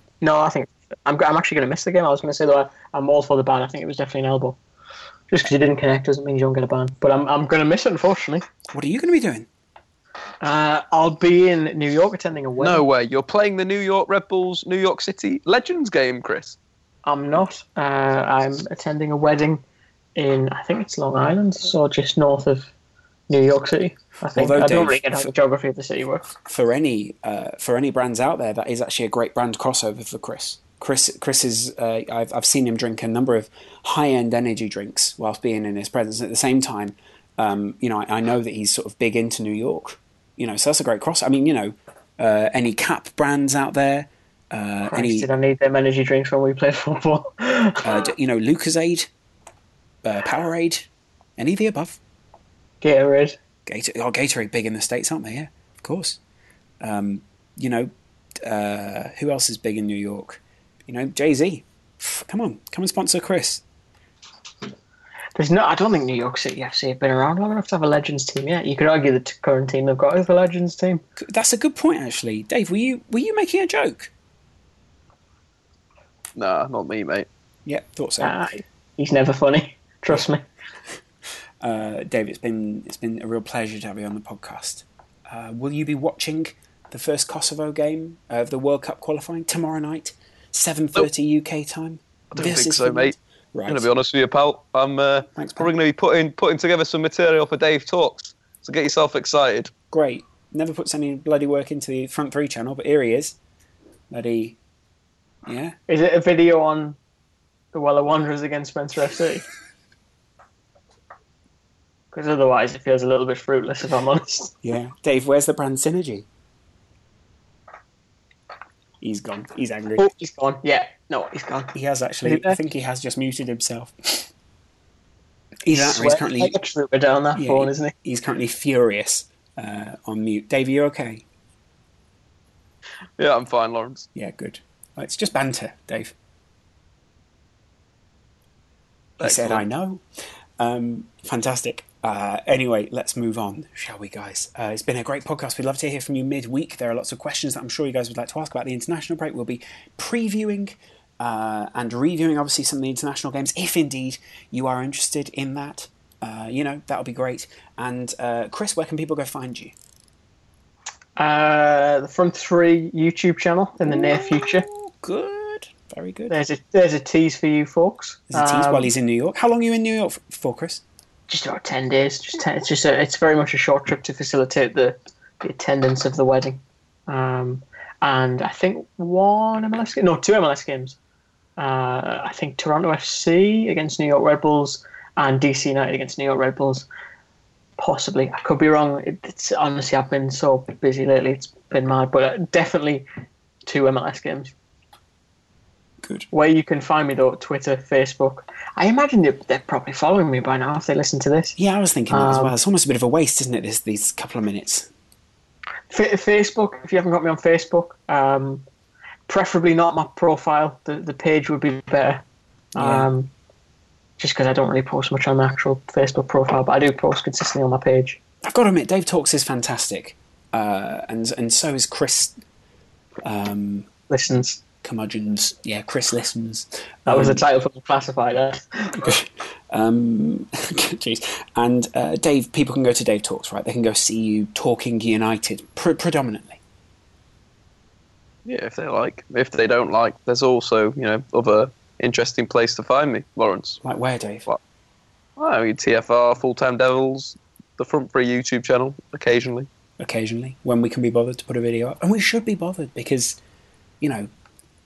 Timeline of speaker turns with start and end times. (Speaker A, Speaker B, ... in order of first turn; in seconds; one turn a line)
Speaker A: 0.2-4.6
Speaker A: 5.3-8.4
Speaker B: 8.7-9.5
Speaker A: 10.4-12.8
Speaker C: 12.6-16.6
Speaker A: 17.1-19.6
Speaker A: 20.2-22.7
Speaker A: 23.3-26.2
Speaker B: 24.4-25.3
Speaker B: 26.3-45.3
Speaker A: 44.9-48.1
Speaker B: 47.8-49.1
Speaker B: 50.0-52.0
Speaker A: 52.8-53.4
Speaker B: 53.7-56.2
Speaker B: 56.8-57.9
Speaker B: 58.4-63.6
Speaker A: 65.4-71.0
Speaker B: 71.2-74.1
Speaker C: 76.4-77.3
Speaker B: 77.7-78.4
Speaker A: 78.2-80.4
Speaker B: 81.6-93.9
Speaker C: 92.3-93.2
Speaker C: 93.7-99.7
Speaker B: 95.3-95.7
Speaker B: 99.9-103.4
Speaker B: 104.1-104.6
Speaker B: 105.5-105.8
Speaker A: 105.9-107.0
Speaker A: 107.7-109.5
Speaker A: 112.1-114.6
Speaker B: 114.6-116.3
Speaker B: 119.0-120.1
Speaker A: 120.0-122.6
Speaker B: 121.7-124.3
Speaker B: 125.6-126.6
Speaker A: 125.7-127.9
Speaker B: 127.4-131.2
Speaker C: 133.2-134.1
Speaker B: 134.2-136.1
Speaker C: 139.2-139.6
Speaker B: 139.2-140.0
Speaker B: 140.6-159.7
Speaker A: 161.2-164.7
Speaker B: 164.6-166.3
Speaker A: 166.3-168.9
Speaker B: 168.3-170.8
Speaker A: 171.3-181.0
Speaker A: 181.6-186.9
Speaker A: 187.8-193.1
Speaker A: 193.7-194.5
Speaker A: 196.3-201.6
Speaker B: 201.6-204.9
Speaker A: 202.1-202.6
Speaker A: 205.9-208.6
Speaker A: 209.3-212.2
Speaker A: 212.8-213.3
Speaker B: 212.8-213.1
Speaker A: 214.2-218.2
Speaker B: 218.4-222.4
Speaker B: 223.2-223.9
Speaker A: 224.1-224.6
Speaker B: 224.8-227.4
Speaker A: 227.1-229.1
Speaker B: 229.0-236.6
Speaker C: 238.5-243.8
Speaker B: 243.8-244.5
Speaker C: 245.4-249.7
Speaker B: 250.0-253.4
Speaker B: 254.0-254.3